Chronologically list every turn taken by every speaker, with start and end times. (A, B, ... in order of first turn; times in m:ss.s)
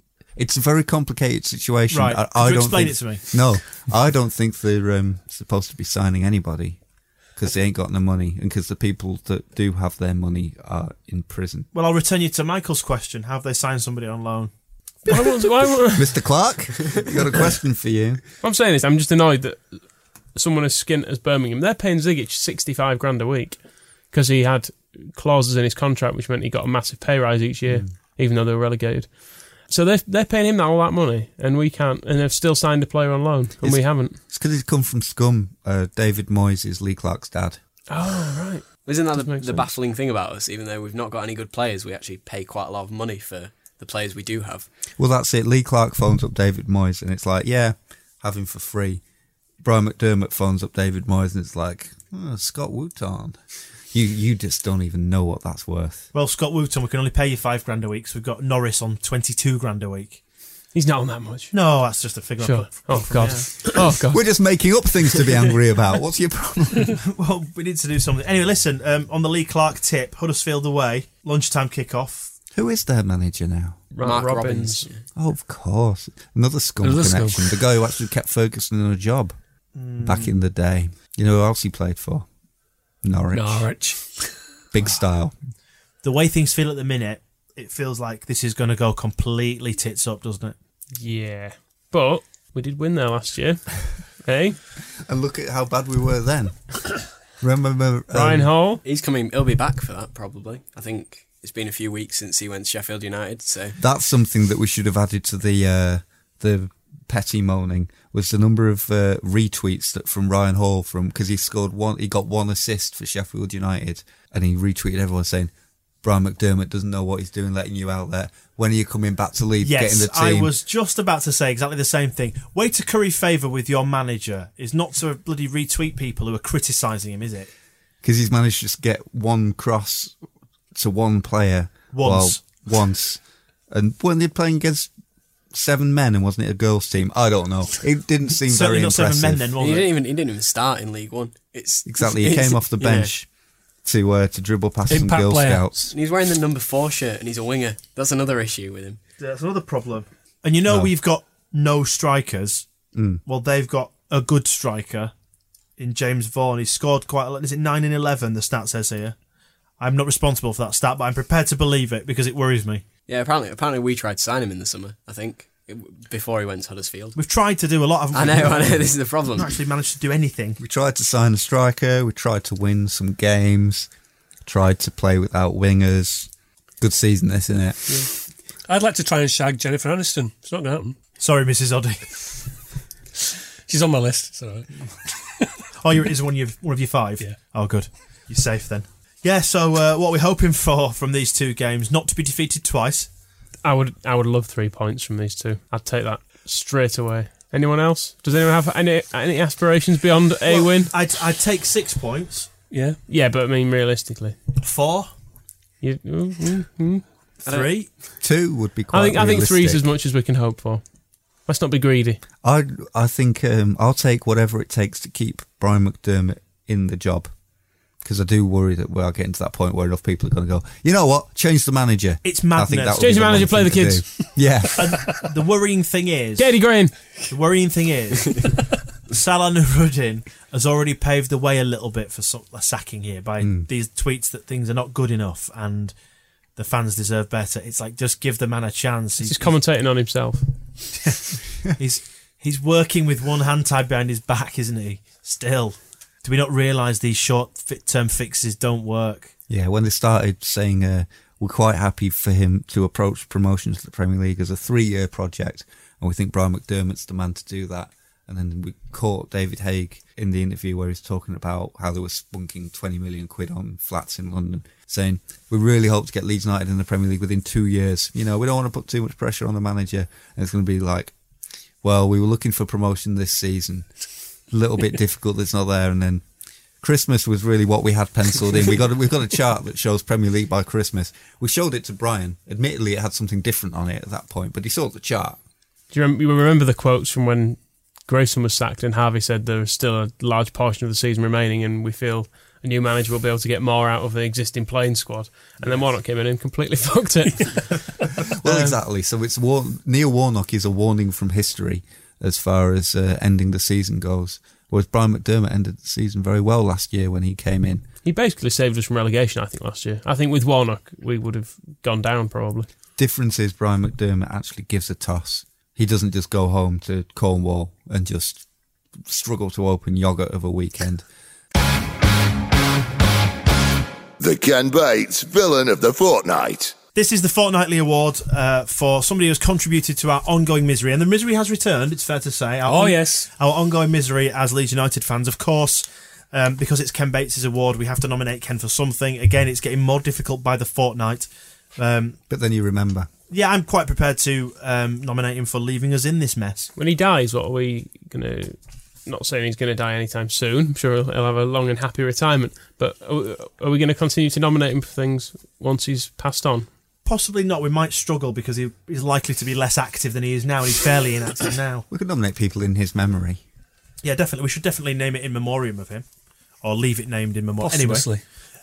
0:00.4-0:06.8 A
0:01.9-0:03.4 B
0:07.4-0:11.7 A
0:11.7-0:14.5 B
0:15.0-0:15.5 B
0:15.1-0:16.1 C
0:15.9-0:18.2 A
0:18.4-0:19.8 C
0:20.3-0:34.2 C
0:33.6-0:37.6 A
0:37.9-0:39.7 C
0:38.8-0:44.7 D
0:45.0-0:49.0 A
0:49.6-0:53.4 A
0:53.9-0:56.1 A
0:56.1-1:00.2 B
1:00.7-1:04.3 C
1:01.5-1:03.8 B
1:04.1-1:07.0 A
1:07.0-1:12.3 B
1:12.5-1:13.8 A
1:13.9-1:14.9 C
1:14.0-1:15.0 D
1:15.2-1:19.4 A
1:16.8-1:17.6 E
1:19.8-1:20.4 B
1:20.0-1:22.3 A
1:23.0-1:23.7 A
1:23.3-1:24.4 E
1:24.7-1:25.3 A
1:26.0-1:30.6 B
1:31.0-1:34.6 C
1:35.1-1:36.8 A
1:37.4-1:38.5 A
1:38.1-1:38.8 C
1:38.8-1:43.8 D
1:43.8-1:55.5 A
1:56.0-2:00.5 A
1:59.6-2:07.5 B
2:08.0-2:10.2 A
2:10.7-2:14.9 A
2:11.9-2:12.4 B
2:15.5-2:19.5 A
2:18.5-2:19.9 B
2:19.6-2:23.1 D
2:21.9-2:23.3 A
2:23.8-2:25.9 A
2:24.9-2:25.7 E
2:25.9-2:29.0 D
2:29.2-2:32.7 B
2:32.9-2:33.2 A
2:33.2-2:35.1 B
2:35.8-2:39.2 B
2:39.8-2:42.8 B
2:43.1-2:47.2 D
2:47.2-2:50.6 B
2:48.1-2:49.5 D
2:50.6-2:53.9 A
2:54.5-2:56.3 A
2:56.8-2:58.1 A
2:58.7-3:01.0 E
3:01.2-3:02.4 B
3:03.7-3:04.8 E
3:05.8-3:13.1 B
3:13.6-3:20.9 C
3:20.5-3:22.5 B
3:22.7-3:23.0 E
3:23.1-3:24.4 C
3:24.6-3:25.1 B
3:25.8-3:27.0 C
3:27.4-3:27.9 B
3:27.5-3:27.7 D
3:28.2-3:29.8 A
3:28.9-3:30.8 C
3:31.5-3:32.2 C
3:32.4-3:37.3 A
3:38.0-3:45.0 A
3:42.2-3:43.4 B
3:43.0-3:44.5 C
3:44.8-3:46.6 B
3:46.4-3:47.2 C
3:47.3-3:55.9 B
3:53.4-3:53.7 A
3:56.6-3:59.6 B
3:59.2-4:00.5 C
4:01.0-4:09.3 B
4:09.5-4:31.1 A
4:31.8-4:33.9 A
4:34.5-4:36.2 A
4:36.8-4:45.4 A
4:45.9-4:58.8 C
4:58.2-5:07.9 A
5:08.0-5:12.7 C
5:13.0-5:18.4 A
5:19.0-5:21.0 A
5:24.2-5:26.8 F
5:27.0-5:42.2 B
5:32.6-5:33.3 E
5:42.3-5:43.1 A
5:43.3-5:46.7 B
5:46.8-5:56.7 C
5:57.1-6:01.9 B
6:01.9-6:03.4 A
6:04.0-6:06.0 B
6:06.6-6:08.2 B
6:07.6-6:08.2 E